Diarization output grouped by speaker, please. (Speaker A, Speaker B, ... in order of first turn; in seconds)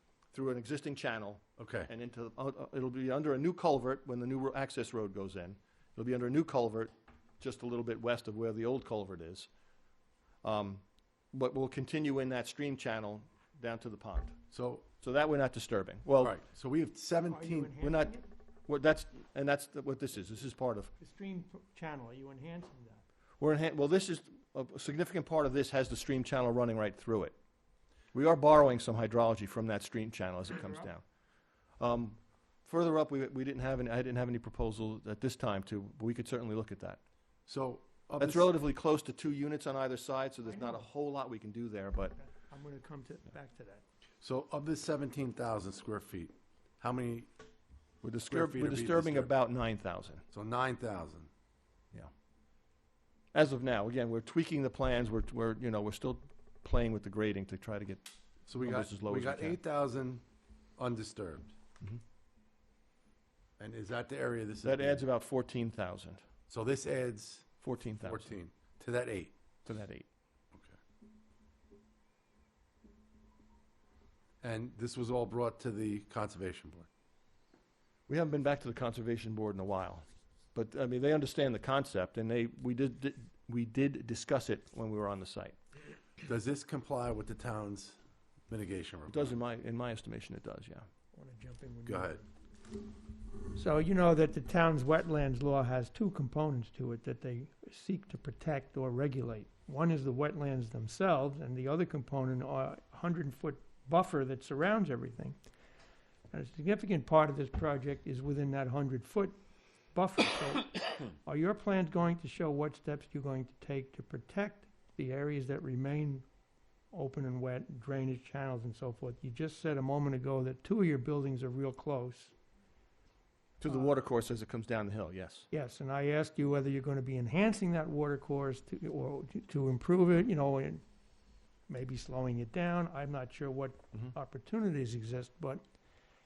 Speaker A: 0.3-9.5, 10.4-10.8, 11.3-14.4, 15.0-16.3, 17.8-18.2, 18.7-20.9, 23.4-27.3, 28.1-31.0, 31.8-37.0, 38.2-42.1, 48.0-50.2, 53.3-58.0, 58.6-59.6, 64.6-66.2, 67.6-68.3, 69.6-70.0, 78.1-85.5, 89.1-90.9, 123.6-125.5
Speaker B: 1.6-1.9, 14.5-14.8, 16.2-17.8, 37.5-38.5, 44.2-47.3, 48.3-49.3, 50.3-51.3, 58.5-60.2, 60.8-61.5, 63.6-65.0, 66.5-69.3, 74.4-76.9, 86.2-88.0, 88.5-89.4, 91.8-92.2
Speaker C: 17.3-18.2, 21.0-23.0, 30.6-30.9, 40.5-40.8, 42.2-43.8, 91.1-92.2, 93.5-105.4, 106.3-109.3, 109.9-116.2, 116.9-122.3, 125.5-130.8, 131.7-135.6